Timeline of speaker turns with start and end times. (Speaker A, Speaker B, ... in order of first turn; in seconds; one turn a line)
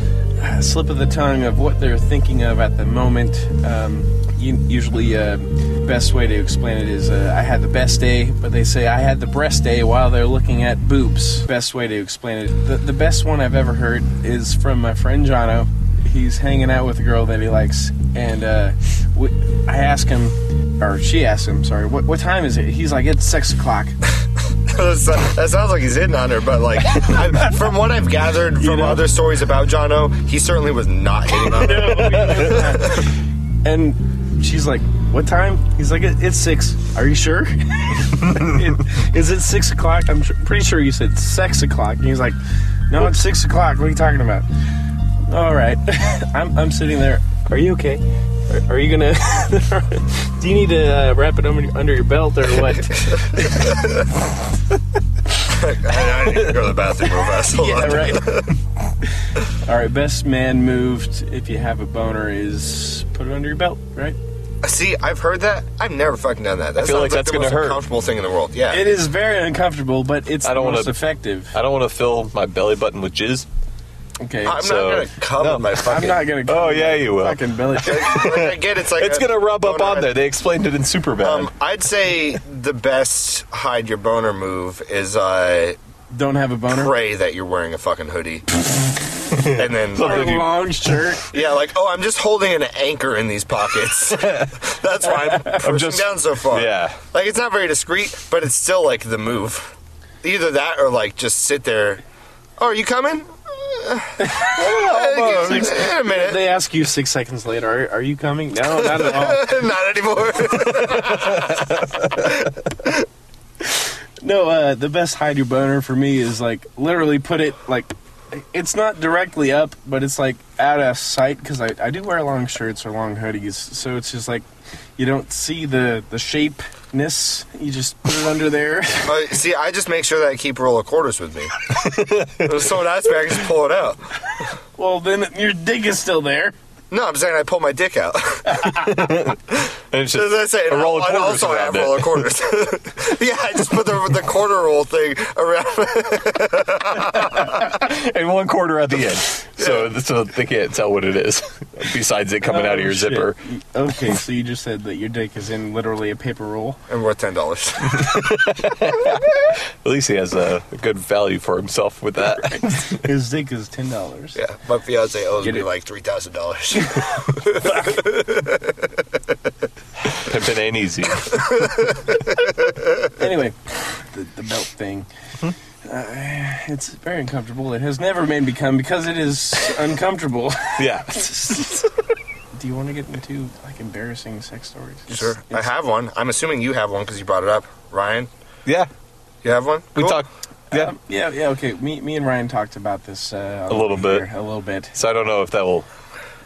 Speaker A: 0.4-24.0
Speaker B: 24.6-33.1
Speaker A: 27.0-27.5
Speaker A: 28.6-29.1
Speaker A: 31.4-33.1
Speaker A: 33.6-42.4
Speaker A: 42.9-44.5
Speaker A: 45.2-53.8
Speaker B: 53.0-54.1
Speaker B: 55.4-58.5
Speaker A: 56.2-58.5
Speaker A: 59.3-64.2
Speaker B: 64.6-68.9
Speaker C: 66.8-67.8
Speaker A: 68.7-71.5
Speaker C: 70.4-71.0
Speaker C: 71.5-73.5
Speaker A: 74.2-74.6
Speaker B: 74.4-76.2
Speaker C: 74.5-81.5
Speaker A: 75.8-78.3
Speaker B: 77.8-80.1
Speaker B: 81.2-85.8
Speaker A: 86.1-86.9
Speaker B: 86.7-88.5
Speaker C: 89.3-90.5
Speaker B: 89.5-90.3
Speaker A: 90.0-91.3
Speaker B: 91.3-102.0
Speaker C: 95.6-97.0
Speaker B: 102.6-106.5
Speaker A: 104.2-109.5
Speaker C: 104.6-105.7
Speaker B: 108.7-113.0
Speaker A: 113.8-124.5
Speaker A: 125.0-129.2
Speaker B: 129.1-131.6
Speaker C: 131.7-132.5
Speaker B: 132.4-134.0
Speaker A: 134.8-136.6
Speaker B: 136.9-138.8
Speaker C: 138.7-142.2
Speaker B: 140.1-147.7
Speaker C: 147.2-153.4
Speaker B: 149.6-149.9
Speaker A: 152.4-156.8
Speaker B: 156.9-158.3
Speaker C: 157.9-163.0
Speaker A: 162.8-164.4
Speaker B: 164.3-169.0
Speaker A: 165.4-165.7
Speaker C: 170.1-171.5
Speaker B: 171.3-172.1
Speaker A: 173.1-175.1
Speaker A: 175.8-181.7
Speaker C: 180.8-181.9
Speaker A: 182.5-185.6
Speaker B: 185.1-188.3
Speaker B: 189.4-190.2
Speaker C: 189.9-190.9
Speaker A: 190.7-194.9
Speaker C: 193.7-194.2
Speaker C: 194.9-195.9